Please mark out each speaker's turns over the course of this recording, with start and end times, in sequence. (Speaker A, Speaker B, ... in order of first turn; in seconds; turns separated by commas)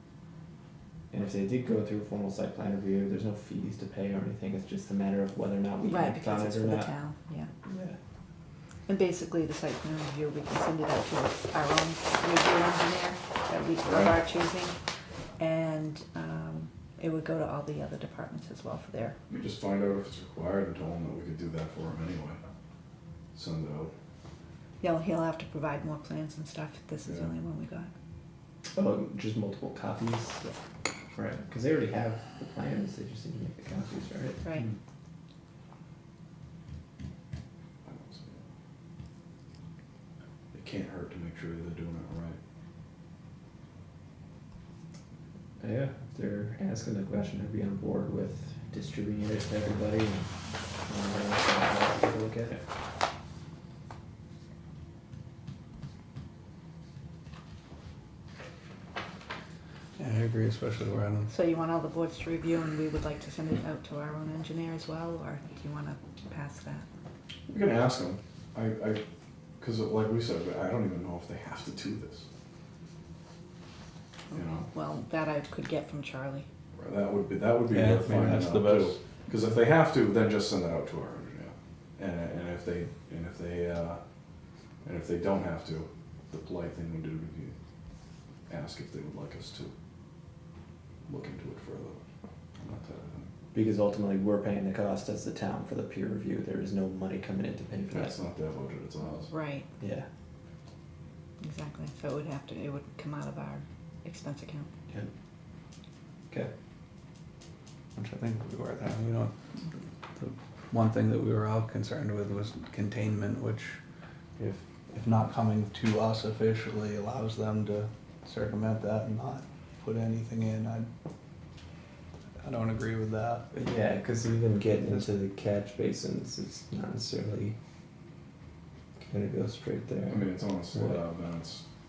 Speaker A: 1.1-6.9, Speaker B: 5.9-7.5, Speaker A: 7.7-8.0, Speaker B: 8.9-14.8, Speaker C: 13.8-14.2, Speaker B: 15.4-19.2, Speaker C: 19.3-22.4, Speaker C: 23.3-23.9, Speaker B: 24.8-27.9, Speaker C: 27.1-27.3, Speaker A: 28.7-30.5, Speaker A: 31.1-34.4, Speaker B: 34.4-34.7, Speaker C: 37.8-38.4, Speaker C: 40.5-42.4, Speaker A: 45.6-50.3, Speaker A: 50.9-52.6, Speaker D: 60.0-61.3, Speaker B: 61.3-66.8, Speaker C: 67.5-69.0, Speaker C: 69.6-72.3, Speaker B: 74.3-76.5, Speaker C: 74.3-74.7, Speaker C: 76.8-84.0, Speaker D: 77.7-79.0, Speaker C: 84.8-87.5, Speaker C: 88.5-89.7, Speaker C: 91.0-92.0, Speaker C: 92.6-93.3, Speaker A: 93.5-98.2, Speaker C: 97.9-99.3, Speaker B: 99.2-99.7, Speaker A: 99.8-100.0, Speaker B: 101.4-104.7, Speaker D: 108.0-109.3, Speaker D: 110.1-113.8, Speaker D: 114.4-120.9, Speaker D: 122.4-123.5, Speaker A: 123.5-127.5, Speaker D: 124.7-125.1, Speaker A: 129.0-131.0, Speaker C: 130.1-131.7